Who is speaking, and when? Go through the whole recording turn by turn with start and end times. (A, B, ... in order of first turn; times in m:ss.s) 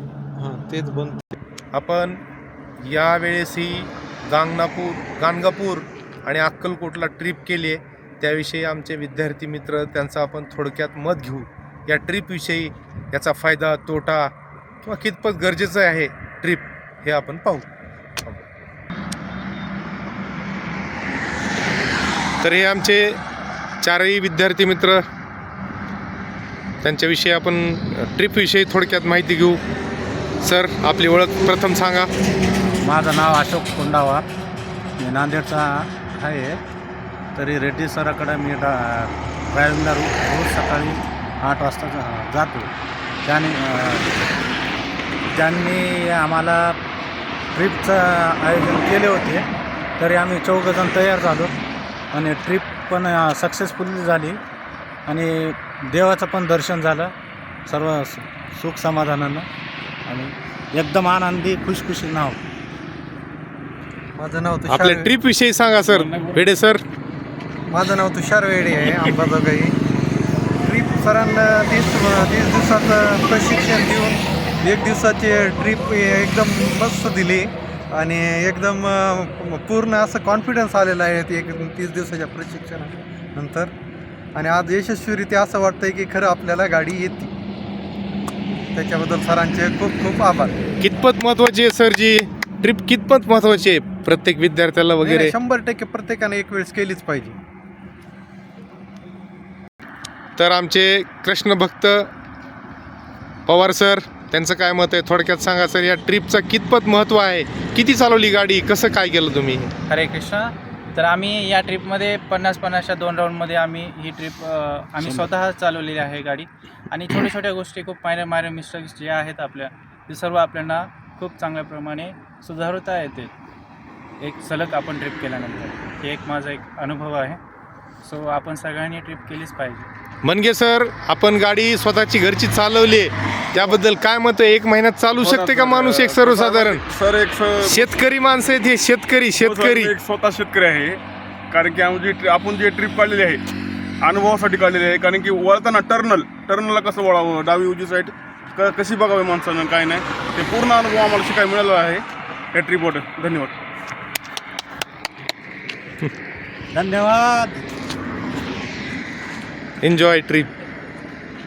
0:00.4-0:01.4 A
0:01.7-0:02.2 B
0:02.8-0:14.3 B
0:14.8-0:17.7 B
0:18.2-0:18.5 B
0:22.4-0:23.2 B
0:23.8-0:25.0 B
0:26.8-0:29.6 B
0:30.4-0:32.1 B
0:32.5-0:34.3 C
0:35.0-0:36.6 C
0:37.4-0:42.7 C
0:43.2-0:44.1 C
0:45.3-0:46.8 C
0:47.5-0:49.5 C
0:50.0-0:51.6 C
0:52.1-0:54.4 C
0:55.1-0:57.1 C
0:57.7-0:59.5 C
1:00.1-1:02.4 C
1:04.2-1:05.1 A
1:04.7-1:06.8 B
1:05.9-1:06.5 D
1:07.7-1:09.8 A
1:10.6-1:23.7 A
1:24.4-1:27.3 A
1:28.7-1:30.6 A
1:30.8-1:35.4 B
1:35.0-1:37.4 A
1:40.4-1:42.1 B
1:43.5-1:49.7 B
1:49.9-2:03.3 D
2:04.2-2:07.4 D
2:08.0-2:09.9 D
2:10.2-2:16.8 B
2:15.2-2:17.9 E
2:17.6-2:19.9 B
2:19.4-2:21.0 E
2:21.5-2:23.4 E
2:24.0-2:33.6 E
2:36.7-2:37.6 C
2:39.8-2:40.5 B